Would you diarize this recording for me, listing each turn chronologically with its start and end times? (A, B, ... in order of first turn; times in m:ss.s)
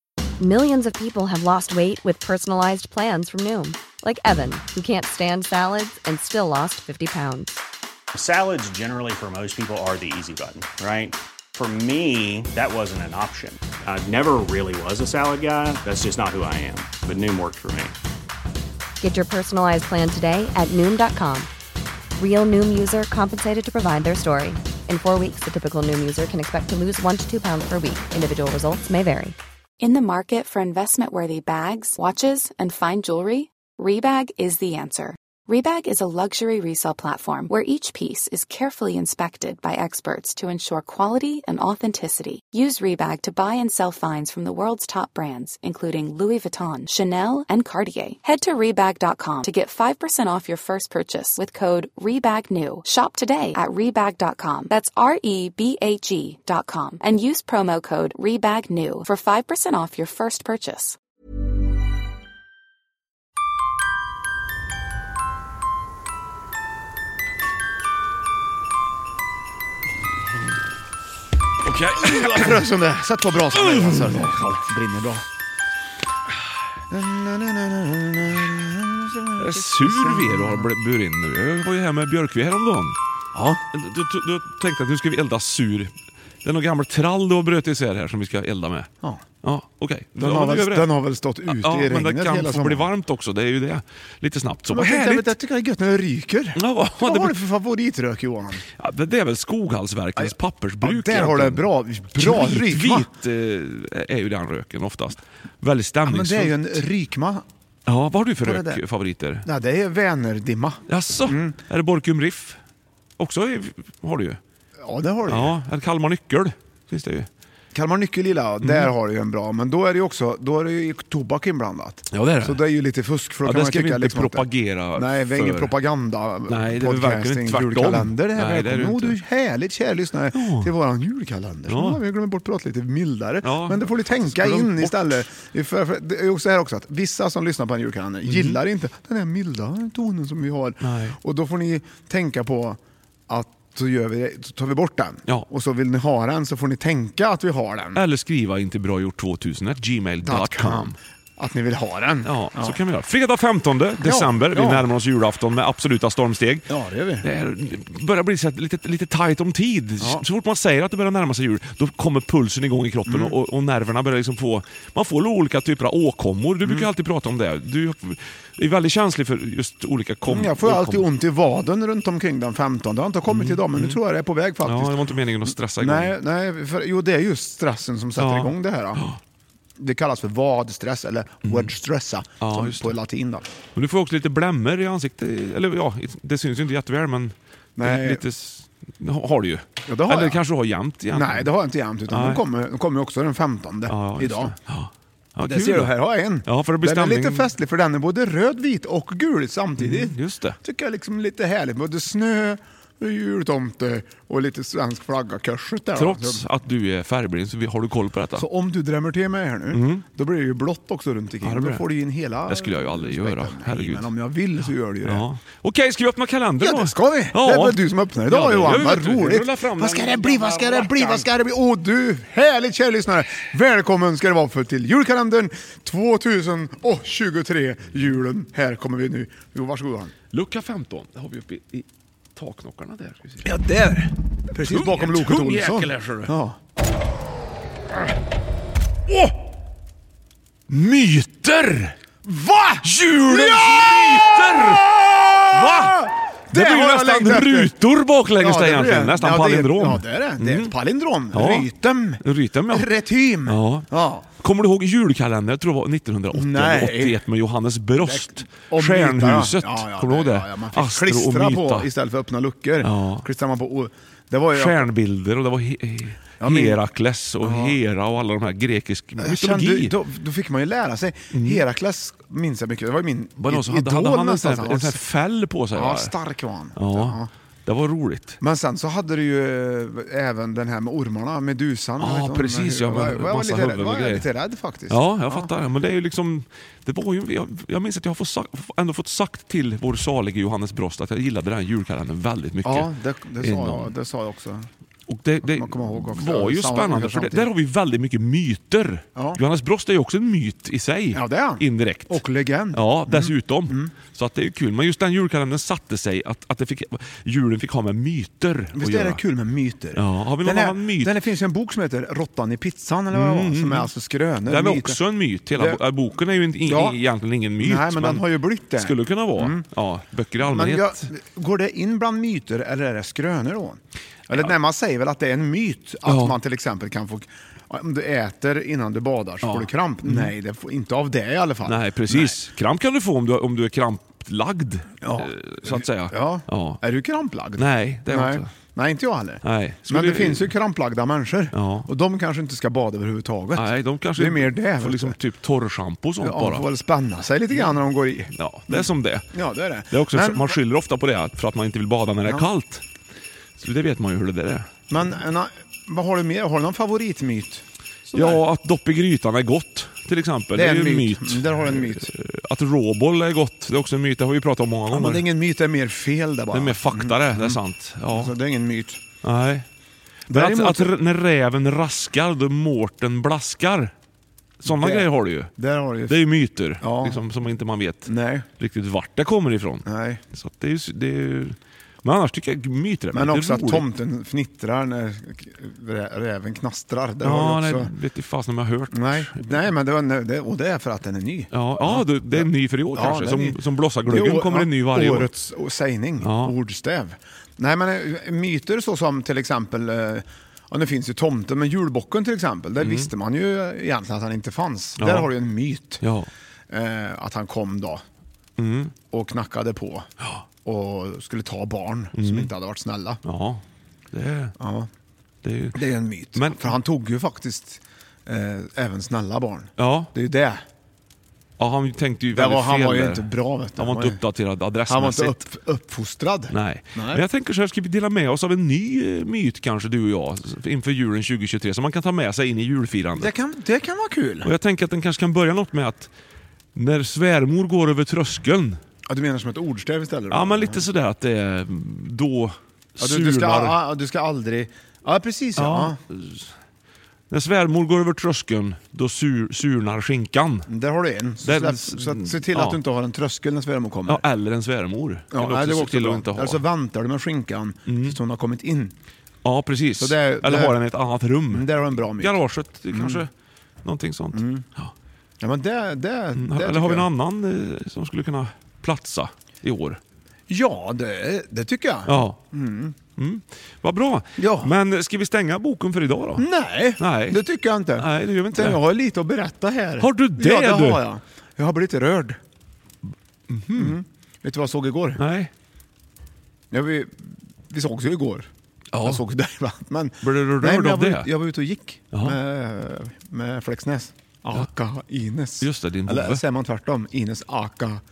0:00.4-0:07.6 A
0:08.1-0:18.0 B
0:19.0-0:21.5 A
0:22.2-0:29.3 A
0:29.8-1:01.0 C
1:11.6-1:12.6 D
1:11.9-1:15.2 E
1:13.5-1:14.3 D
1:16.9-1:20.7 E
1:19.4-1:23.0 D
1:23.3-1:23.6 E
1:23.7-1:25.9 D
1:26.4-1:28.9 D
1:29.4-1:30.9 D
1:30.2-1:32.9 E
1:31.5-1:35.3 D
1:34.7-1:38.6 E
1:36.6-1:37.4 D
1:38.8-1:46.8 D
1:40.2-1:43.1 E
1:46.0-1:47.4 E
1:47.9-1:49.4 D
1:48.4-1:48.8 E
1:49.4-1:51.6 E
1:50.9-1:52.6 D
1:53.2-1:54.4 D
1:54.8-1:55.6 E
1:55.3-1:57.3 D
1:57.7-2:28.0 E
1:58.6-1:58.9 D
2:02.1-2:02.6 D
2:03.4-2:05.7 D
2:06.5-2:09.2 D
2:10.3-2:10.7 D
2:11.7-2:12.0 D
2:13.4-2:15.2 D
2:18.2-2:18.6 D
2:20.8-2:21.2 D
2:27.9-2:31.0 D
2:30.2-2:32.8 E
2:32.2-2:51.0 D
2:34.0-2:34.9 E
2:36.7-2:37.2 E
2:43.1-2:43.4 E
2:50.3-2:59.0 E
2:53.3-2:54.0 D
2:54.6-2:56.2 D
2:58.2-2:59.2 D
2:59.8-3:03.5 E
3:01.4-3:01.7 D
3:02.4-3:03.0 D
3:03.7-3:11.5 D
3:07.8-3:08.2 E
3:09.8-3:10.4 E
3:11.1-3:14.6 E
3:12.1-3:12.4 D
3:13.9-3:15.9 D
3:15.4-3:26.4 E
3:16.4-3:17.5 D
3:19.8-3:20.6 D
3:25.9-3:28.4 D
3:28.4-3:35.2 E
3:29.7-3:30.0 D
3:31.4-3:31.9 D
3:32.4-3:34.1 D
3:35.0-3:41.3 D
3:36.6-3:50.1 E
3:50.3-3:53.5 D
3:53.4-3:56.6 E
3:54.6-3:56.3 D
4:00.7-4:02.0 D
4:02.2-4:04.7 E
4:02.8-4:10.7 D
4:05.6-4:07.7 E
4:08.4-4:14.2 E
4:11.3-4:11.7 D
4:12.2-4:12.9 D
4:13.4-4:13.8 D
4:14.4-4:21.9 D
4:16.3-4:17.2 E
4:18.0-4:24.8 E
4:22.8-4:23.2 D
4:24.5-4:29.9 D
4:26.4-4:26.8 E
4:27.4-4:27.8 E
4:29.2-4:35.0 E
4:31.3-4:31.6 D
4:33.4-4:36.1 D
4:35.7-4:37.3 E
4:36.8-4:38.4 D
4:38.4-4:45.5 E
4:42.0-4:44.3 D
4:44.9-4:53.9 D
4:52.6-4:54.7 E
4:55.1-5:02.2 D
4:55.4-4:57.5 E
4:59.2-4:59.4 E
5:01.1-5:03.9 E
5:02.7-5:09.2 D
5:08.7-5:15.0 E
5:09.9-5:11.1 D
5:13.1-5:13.9 D
5:14.4-5:21.0 D
5:15.6-5:15.8 E
5:16.6-5:17.0 E
5:17.6-5:19.7 E
5:20.4-5:32.4 E
5:26.0-5:26.4 D
5:29.4-5:30.3 D
5:31.6-5:36.8 D
5:35.0-5:45.2 E
5:37.6-5:38.5 D
5:39.4-5:40.5 D
5:41.5-5:41.9 D
5:43.5-5:46.7 D
5:46.2-5:50.6 E
5:48.3-5:49.3 D
5:49.9-5:52.8 D
5:53.6-5:54.7 D
5:54.9-5:58.4 E
5:58.1-6:05.2 D
6:00.5-6:02.1 E
6:04.9-6:09.0 E
6:06.5-6:08.3 D
6:09.2-6:09.6 D
6:10.3-6:10.9 E
6:10.3-6:13.9 D
6:14.6-6:15.5 D
6:14.6-6:16.2 E
6:16.1-6:23.8 D
6:16.8-6:17.2 E
6:18.0-6:18.5 E
6:19.8-6:20.2 E
6:23.1-6:27.9 E
6:27.2-6:29.6 D
6:28.9-6:46.0 E
6:31.5-6:35.3 D
6:36.2-6:36.5 D
6:42.8-6:43.1 D
6:45.0-6:45.3 D
6:46.0-6:46.3 D
6:46.7-6:48.0 E
6:48.6-6:48.9 D
6:49.1-6:50.1 E
6:50.6-6:53.2 E
6:52.1-6:52.5 D
6:53.2-6:54.5 D
6:54.6-6:54.9 E
6:55.4-6:55.8 D
6:55.7-7:00.6 E
6:56.3-6:56.7 D
6:59.8-7:00.1 D
7:01.6-7:05.4 D
7:02.3-7:04.2 E
7:04.8-7:07.2 E
7:06.5-7:13.3 D
7:13.2-7:14.5 E
7:14.4-7:16.1 D
7:16.7-7:18.8 D
7:19.0-7:20.9 E
7:20.3-7:23.8 D
7:23.0-7:26.0 E
7:25.6-7:26.5 D
7:27.3-7:30.7 D
7:30.7-7:34.2 E
7:31.4-7:32.8 D
7:34.1-7:36.6 D
7:35.3-7:38.9 E
7:37.8-7:38.2 D
7:39.4-7:43.3 D
7:40.0-7:40.8 E
7:41.5-7:42.4 E
7:42.9-7:43.3 E
7:43.8-7:44.9 D
7:44.3-7:44.6 E
7:45.4-7:47.1 E
7:46.4-7:50.0 D
7:50.5-7:53.0 E
7:52.0-7:52.4 D
7:53.2-7:56.5 D
7:54.4-7:54.7 E
7:56.4-8:02.4 E
7:57.0-7:57.4 D
7:57.9-7:58.8 D
8:00.0-8:01.0 D
8:03.5-8:04.0 D
8:03.7-8:05.2 E
8:05.2-8:05.5 D
8:06.7-8:08.5 E
8:08.9-8:09.2 D
8:09.0-8:18.0 E
8:10.2-8:11.3 D
8:12.1-8:12.4 D
8:15.6-8:16.4 D